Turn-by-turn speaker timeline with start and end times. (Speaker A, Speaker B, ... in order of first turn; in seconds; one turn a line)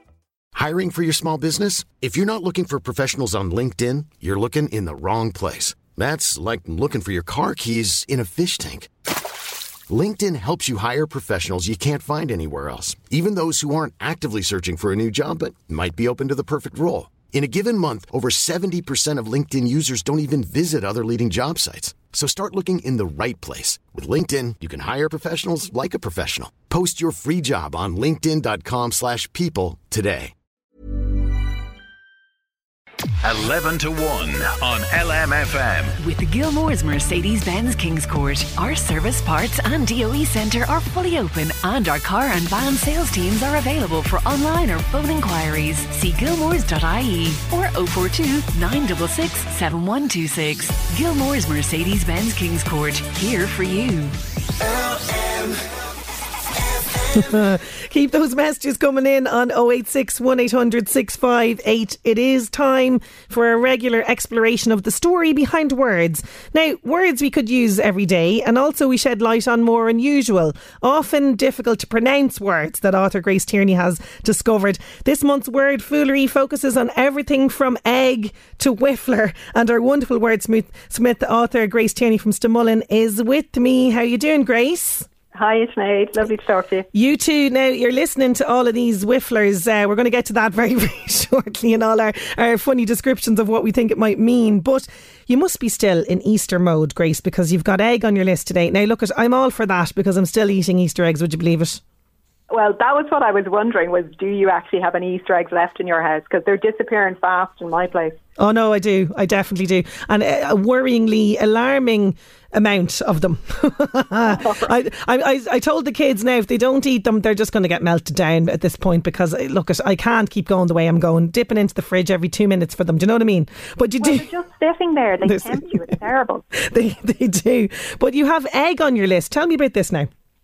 Speaker A: 0.5-8.9
Speaker A: 9.9-30.3
Speaker B: 33.2-36.0
Speaker C: 36.0-54.1
Speaker D: 57.1-85.1
Speaker E: 85.3-86.9
Speaker D: 86.9-101.8
Speaker E: 102.5-108.2
Speaker D: 108.4-124.3
Speaker E: 114.3-114.7
Speaker E: 124.0-126.4
Speaker D: 125.2-125.6
Speaker D: 126.6-130.1